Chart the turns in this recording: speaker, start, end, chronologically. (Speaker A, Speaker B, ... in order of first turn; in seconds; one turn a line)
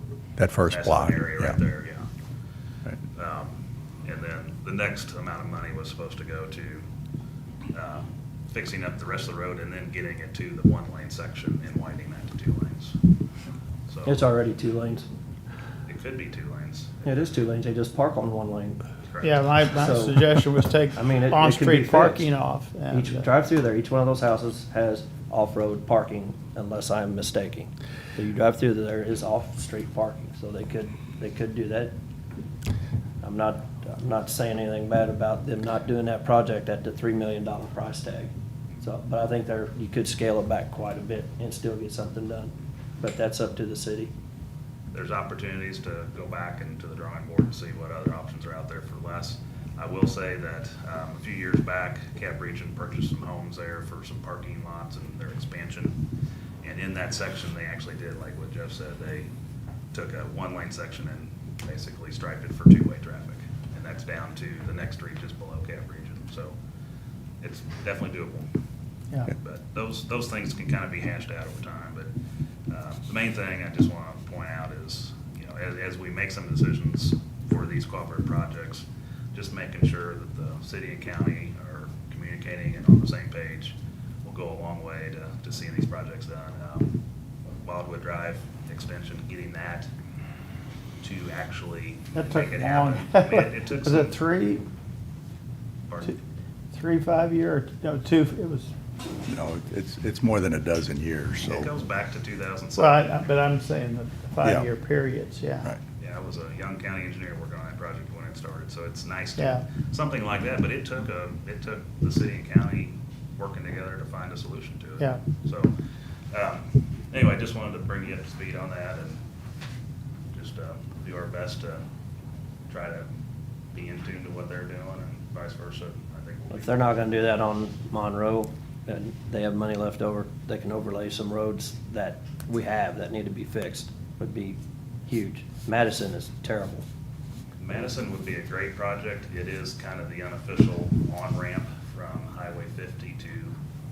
Speaker A: 0.4-1.6
Speaker B: 0.7-2.1
Speaker B: 3.1-6.9
Speaker B: 7.7-13.0
Speaker B: 13.9-14.2
Speaker C: 14.1-15.1
Speaker B: 15.9-17.4
Speaker C: 17.1-18.8
Speaker B: 19.0-19.6
Speaker D: 19.2-23.3
Speaker C: 19.8-20.3
Speaker C: 20.9-22.3
Speaker C: 22.9-32.0
Speaker C: 33.2-44.1
Speaker B: 44.9-56.0
Speaker B: 56.6-59.3
Speaker B: 59.9-66.6
Speaker B: 67.4-68.5
Speaker B: 69.3-72.1
Speaker B: 72.7-87.0
Speaker B: 87.6-89.9
Speaker B: 91.0-94.2
Speaker D: 92.1-94.6
Speaker B: 95.9-96.2
Speaker D: 96.7-98.7
Speaker A: 99.3-101.7
Speaker B: 101.4-103.2
Speaker D: 102.8-105.7
Speaker B: 106.0-115.7
Speaker D: 109.4-109.6
Speaker B: 116.3-119.2
Speaker B: 120.3-121.8
Speaker B: 122.7-123.1
Speaker B: 123.7-127.1
Speaker C: 126.5-136.9
Speaker B: 137.6-143.6